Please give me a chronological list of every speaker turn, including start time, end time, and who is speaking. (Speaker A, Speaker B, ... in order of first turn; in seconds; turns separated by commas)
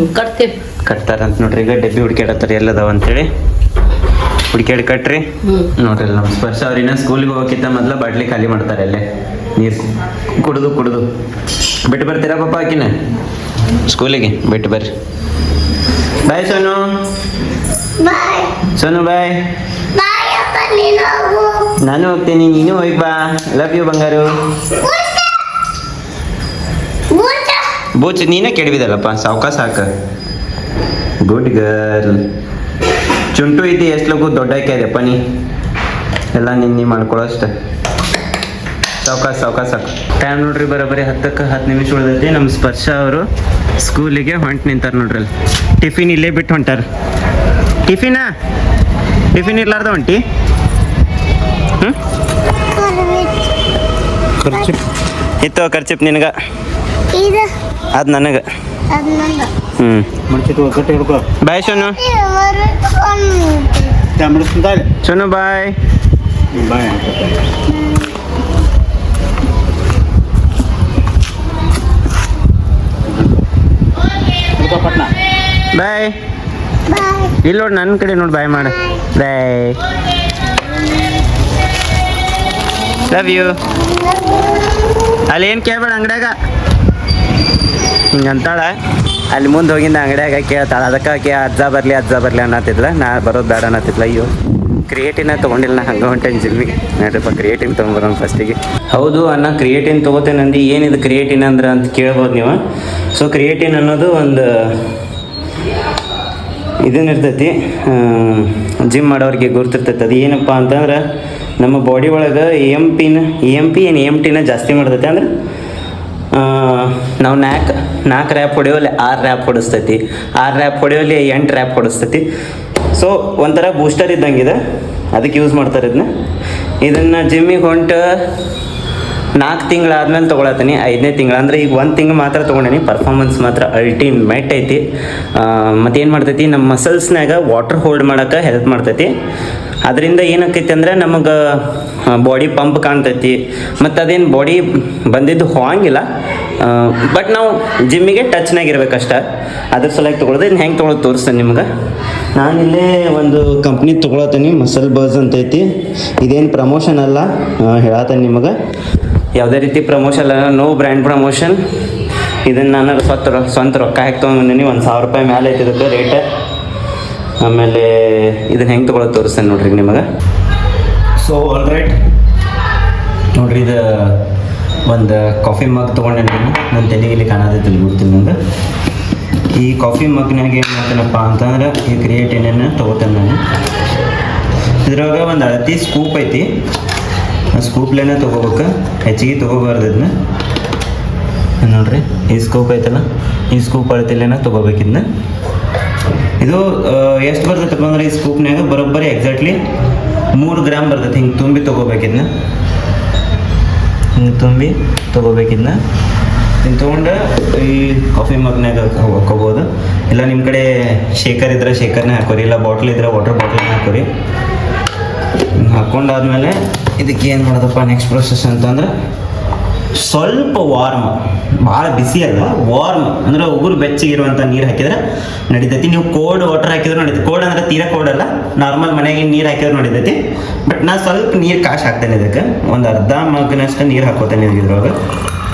Speaker A: 0.8-3.3, Speaker A: 4.5-9.1, Speaker A: 9.6-11.1, Speaker A: 11.8-12.9, Speaker A: 13.9-14.9, Speaker A: 16.3-16.9, Speaker B: 18.0-18.5, Speaker A: 18.8-19.4, Speaker B: 19.9-21.7, Speaker A: 21.8-24.3, Speaker B: 24.8-25.5, Speaker B: 27.1-27.7, Speaker A: 27.9-29.9, Speaker A: 31.2-32.2, Speaker A: 33.3-35.2, Speaker A: 36.3-37.5, Speaker A: 39.0-43.3, Speaker A: 43.8-46.8, Speaker A: 47.9-48.3, Speaker A: 49.3-50.2, Speaker B: 52.7-53.5, Speaker B: 54.5-54.8, Speaker A: 54.5-54.8, Speaker A: 55.4-56.3, Speaker B: 57.1-57.5, Speaker A: 57.9-58.4, Speaker B: 58.9-59.5, Speaker A: 59.8-60.1, Speaker C: 60.3-61.3, Speaker A: 61.4-62.0, Speaker B: 61.7-63.9, Speaker C: 64.2-64.9, Speaker A: 64.9-65.8, Speaker C: 66.6-67.3, Speaker C: 74.6-75.1, Speaker A: 75.7-76.2, Speaker B: 76.9-77.4, Speaker A: 77.4-79.8, Speaker A: 83.1-83.6, Speaker B: 83.8-84.4, Speaker A: 85.3-86.3, Speaker A: 88.1-88.8, Speaker A: 89.3-94.3, Speaker A: 94.8-102.6, Speaker A: 103.1-104.9, Speaker A: 106.8-111.0, Speaker A: 111.6-115.3, Speaker A: 116.3-122.2, Speaker A: 122.9-124.6, Speaker A: 125.1-126.1, Speaker A: 126.8-128.0, Speaker A: 129.4-134.8, Speaker A: 135.3-139.1, Speaker A: 139.8-146.1, Speaker A: 146.6-151.7, Speaker A: 152.3-155.7, Speaker A: 156.2-158.5, Speaker A: 159.3-161.6, Speaker A: 162.5-166.2, Speaker A: 167.4-170.1, Speaker A: 171.2-171.9, Speaker A: 173.3-174.2, Speaker A: 174.9-178.3, Speaker A: 179.6-183.4, Speaker A: 184.8-186.5, Speaker A: 187.5-190.1, Speaker A: 191.6-195.1, Speaker A: 196.4-199.6, Speaker A: 200.3-202.3, Speaker A: 204.2-205.8, Speaker A: 206.6-214.1, Speaker A: 215.6-218.9, Speaker A: 219.9-234.9